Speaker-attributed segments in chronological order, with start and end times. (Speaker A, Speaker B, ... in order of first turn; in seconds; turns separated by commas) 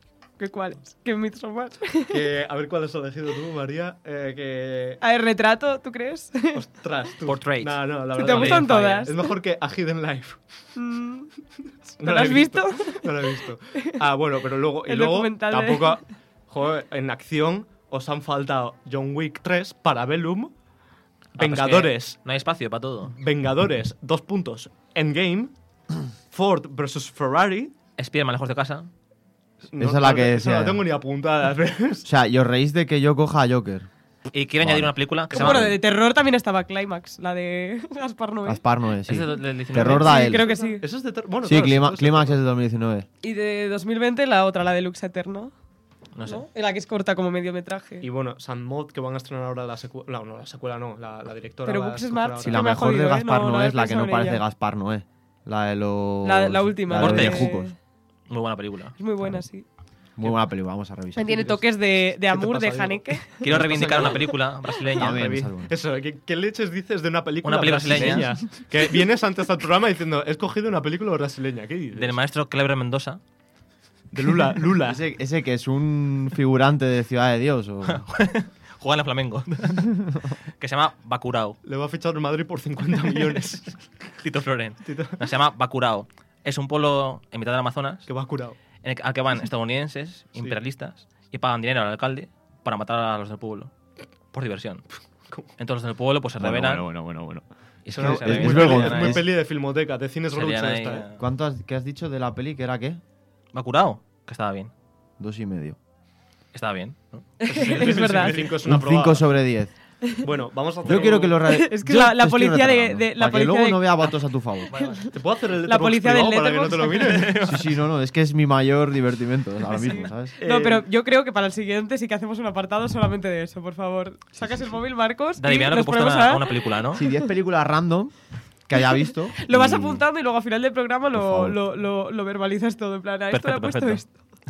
Speaker A: 0.4-2.2, Speaker B: 2.1-5.0, Speaker A: 5.0-6.6, Speaker B: 6.5-10.4, Speaker C: 7.2-9.1, Speaker A: 8.1-9.3, Speaker A: 10.8-11.3, Speaker A: 12.0-14.0, Speaker B: 12.0-20.5, Speaker A: 14.8-16.0, Speaker B: 21.4-22.2, Speaker C: 21.4-23.1, Speaker B: 23.1-25.5, Speaker B: 26.3-27.7, Speaker C: 28.0-28.9, Speaker B: 29.7-32.1, Speaker D: 29.8-30.9, Speaker D: 32.0-33.9, Speaker C: 34.3-35.7, Speaker D: 34.6-35.8, Speaker A: 35.3-38.6, Speaker D: 38.5-40.5, Speaker C: 39.0-40.4, Speaker A: 39.7-40.9, Speaker B: 40.8-42.4, Speaker D: 41.4-43.1, Speaker A: 43.2-45.5, Speaker C: 46.1-46.5, Speaker A: 46.2-48.1, Speaker B: 48.0-52.8, Speaker A: 51.6-54.4, Speaker D: 52.4-57.7, Speaker A: 56.2-57.7, Speaker C: 56.9-57.5, Speaker C: 58.3-58.9, Speaker A: 59.0-59.6, Speaker D: 60.2-61.4, Speaker A: 61.1-63.5, Speaker B: 61.3-72.2, Speaker C: 63.4-65.3, Speaker D: 65.0-65.7, Speaker C: 67.4-68.4, Speaker D: 67.9-68.3, Speaker C: 71.9-73.2, Speaker B: 74.1-75.0, Speaker D: 74.8-78.0, Speaker C: 77.8-81.6, Speaker B: 81.6-83.8, Speaker C: 84.2-88.1, Speaker B: 84.8-85.2, Speaker B: 88.1-88.6, Speaker C: 88.8-93.7, Speaker C: 94.3-94.9, Speaker C: 95.6-96.9, Speaker D: 96.4-99.3, Speaker C: 97.8-99.3, Speaker B: 97.9-101.1, Speaker C: 100.3-101.2, Speaker D: 101.2-103.0, Speaker C: 103.5-104.7, Speaker D: 105.2-105.8, Speaker C: 106.5-108.6, Speaker A: 107.4-108.4, Speaker B: 107.5-109.3, Speaker D: 108.6-109.7, Speaker B: 110.2-111.4, Speaker D: 110.8-114.7, Speaker A: 111.4-113.9, Speaker C: 114.7-115.1, Speaker A: 114.7-117.3, Speaker B: 115.1-117.4, Speaker C: 116.9-117.8, Speaker D: 117.4-120.3, Speaker A: 119.7-126.7, Speaker B: 120.4-120.8, Speaker D: 124.3-124.8, Speaker C: 125.4-127.0, Speaker D: 126.9-128.1, Speaker D: 128.7-130.0, Speaker A: 129.3-134.1, Speaker D: 131.1-131.6, Speaker C: 133.3-134.0